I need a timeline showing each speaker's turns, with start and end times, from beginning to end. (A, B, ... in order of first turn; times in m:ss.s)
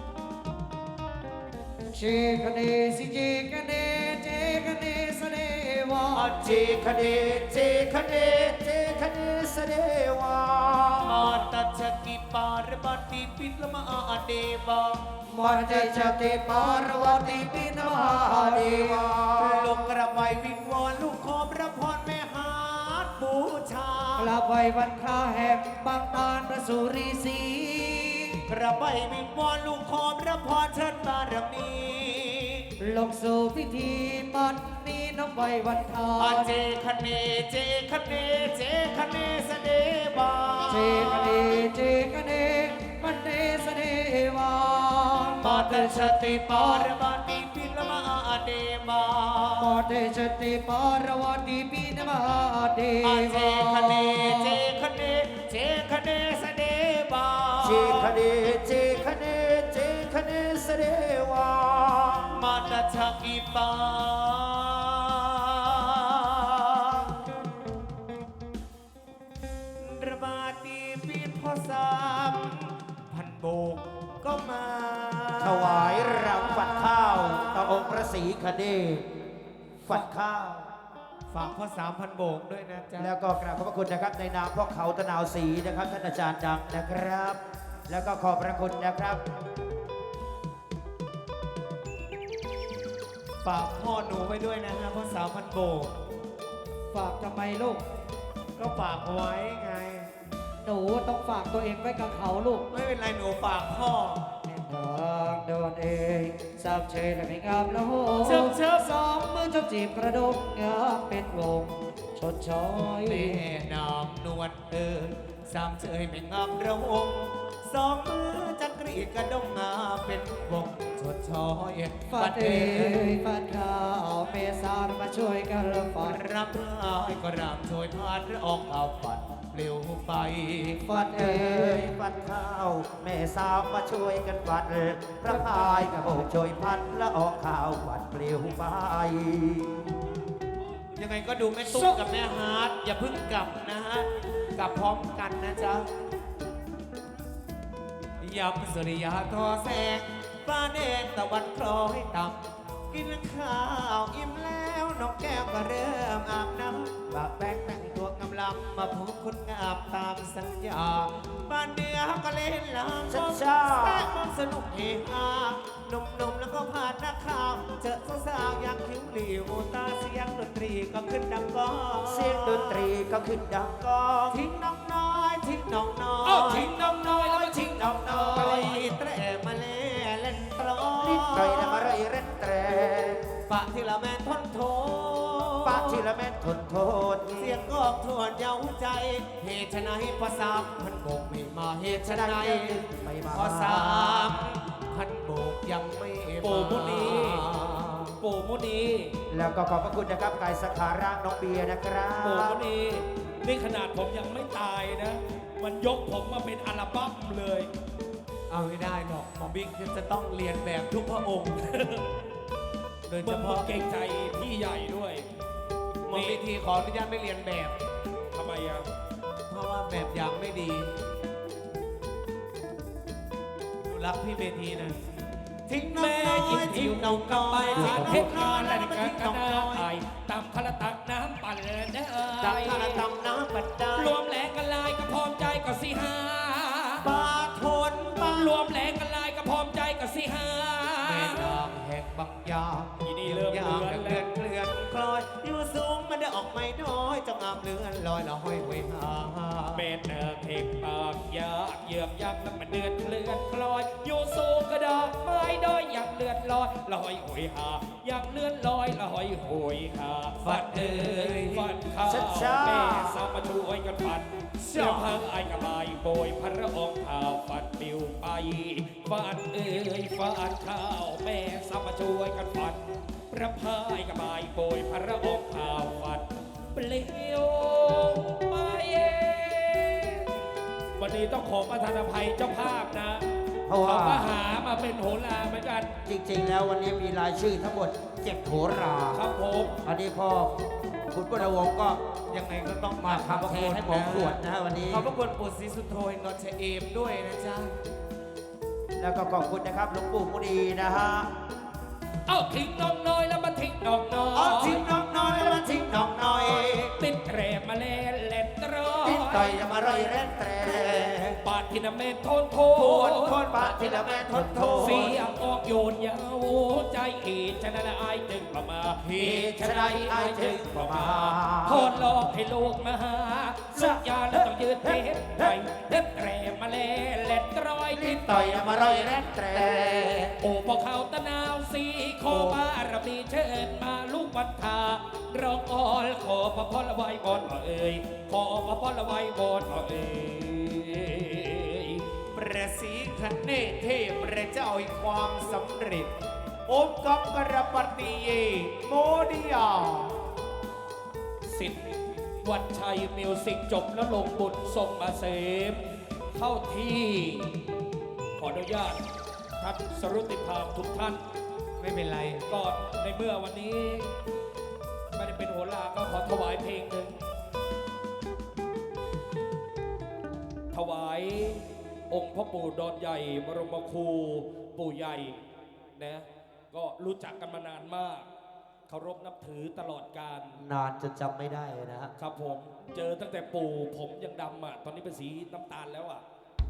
0:01.9-0:06.4 A
0:06.1-0:06.9 B
0:06.4-0:11.4 C
0:11.1-0:15.2 B
0:15.3-0:19.2 A
0:15.4-0:19.9 C
0:19.4-0:24.4 B
0:24.2-0:28.4 A
0:28.5-0:32.6 B
0:32.8-0:36.6 A
0:36.2-0:41.5 B
0:40.7-0:46.9 A
0:45.4-0:49.7 B
0:49.6-0:54.6 A
0:53.0-0:58.2 B
0:57.6-1:02.4 C
1:02.3-1:07.1 B
1:09.8-1:18.1 B
1:15.4-1:19.0 C
1:19.8-1:20.7 C
1:21.3-1:23.1 B
1:23.0-1:29.2 C
1:33.4-1:35.9 B
1:36.9-1:37.8 A
1:38.6-1:40.1 B
1:40.6-1:42.6 A
1:42.7-1:44.2 B
1:44.4-1:53.4 A
1:48.2-1:49.0 B
1:53.0-2:03.0 B
2:02.1-2:06.2 A
2:06.0-2:10.8 B
2:10.8-2:11.9 A
2:10.9-2:20.0 C
2:15.3-2:16.2 A
2:21.0-2:25.9 B
2:21.6-2:22.0 A
2:28.2-2:52.9 B
2:43.1-2:44.2 C
2:52.0-2:54.5 C
2:54.3-3:02.0 B
2:56.2-2:58.9 D
3:01.0-3:03.3 C
3:03.5-3:06.0 B
3:05.6-3:07.7 C
3:07.4-3:18.2 B
3:11.9-3:14.4 C
3:16.4-3:17.5 D
3:18.2-3:19.2 D
3:19.3-3:22.6 C
3:22.2-3:27.7 D
3:28.5-3:32.0 B
3:33.1-3:33.7 B
3:33.2-3:35.3 D
3:36.1-3:37.8 B
3:36.1-3:36.4 D
3:38.3-3:38.9 D
3:39.5-3:40.9 B
3:43.8-3:45.0 B
3:45.7-3:49.9 B
3:45.9-3:53.1 D
3:47.7-3:48.3 C
3:52.4-3:54.2 B
3:53.9-3:57.1 D
3:57.0-3:58.6 B
3:58.2-4:01.6 D
4:01.0-4:09.9 B
4:03.0-4:04.3 D
4:09.7-4:40.3 D
4:20.4-4:21.7 B
4:22.0-4:23.2 C
4:24.6-4:25.1 B
4:41.0-4:43.3 D
4:43.7-4:44.3 C
4:43.8-4:45.9 D
4:46.0-4:49.2 C
4:49.1-4:49.8 D
4:49.8-4:52.0 C
4:52.3-4:54.4 B
4:53.0-4:55.1 C
4:54.9-4:57.7 B
4:59.0-5:01.3 C
5:02.3-5:04.9 D
5:04.4-5:06.9 C
5:04.4-5:06.9 B
5:06.9-5:09.5 D
5:09.0-5:11.4 C
5:09.6-5:10.3 B
5:11.4-5:13.7 D
5:12.7-5:15.2 B
5:13.5-5:15.2 C
5:14.8-5:29.2 D
5:19.0-5:19.4 B
5:19.2-5:22.1 C
5:23.8-5:25.5 C
5:27.9-5:30.4 C
5:30.4-5:42.0 D
5:32.3-5:32.6 C
5:42.3-5:46.1 B
5:46.7-5:50.1 B
5:52.4-5:57.6 D
5:58.4-5:59.0 D
5:59.6-6:01.2 D
6:01.8-6:02.5 B
6:02.5-6:04.2 D
6:05.1-6:07.2 D
6:10.7-6:15.4 D
6:16.0-6:18.3 D
6:18.9-6:20.6 D
6:20.6-6:22.1 C
6:22.2-6:26.2 D